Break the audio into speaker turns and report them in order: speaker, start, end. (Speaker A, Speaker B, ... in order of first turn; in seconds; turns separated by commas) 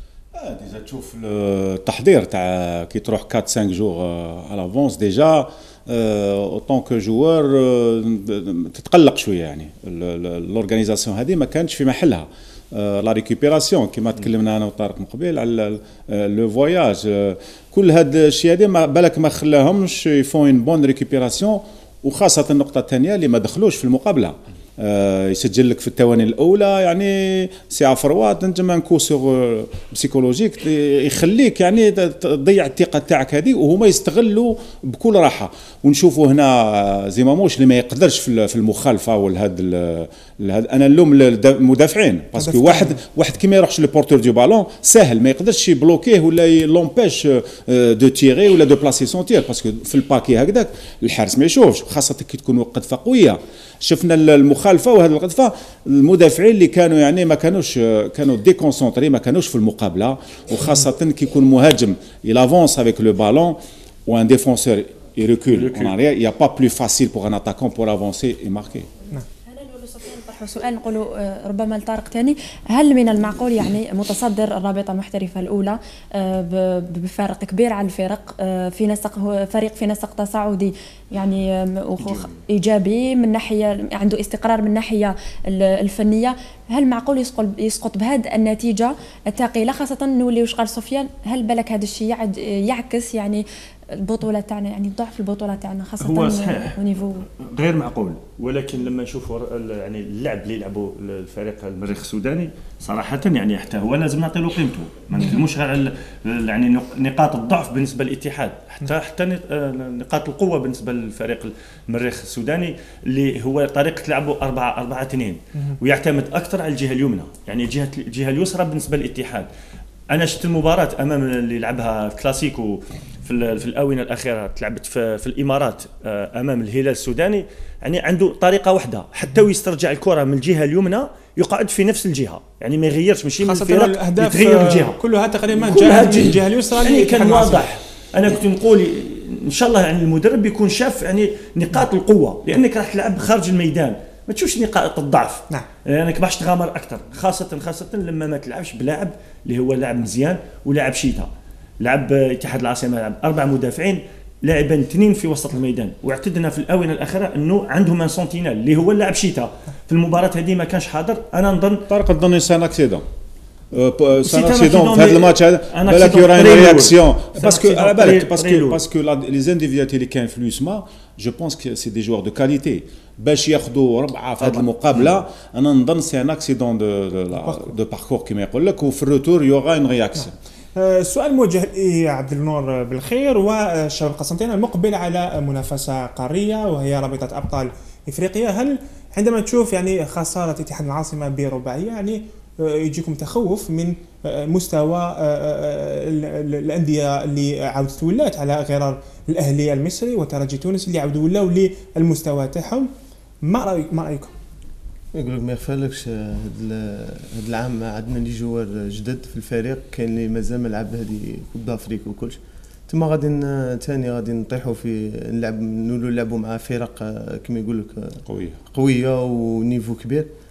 Speaker A: 0.3-68.9, Speaker B: 42.4-43.0, Speaker C: 65.5-65.9, Speaker D: 69.5-97.3, Speaker C: 82.0-82.4, Speaker C: 96.0-96.8, Speaker C: 97.4-119.5, Speaker C: 120.1-135.0, Speaker B: 133.4-137.6, Speaker C: 135.5-151.3, Speaker C: 151.8-161.8, Speaker A: 161.9-163.0, Speaker A: 163.7-180.3, Speaker C: 164.2-168.8, Speaker C: 174.4-175.1, Speaker B: 177.4-177.7, Speaker B: 180.8-202.9, Speaker B: 203.4-204.3, Speaker E: 205.1-220.3, Speaker A: 218.3-218.6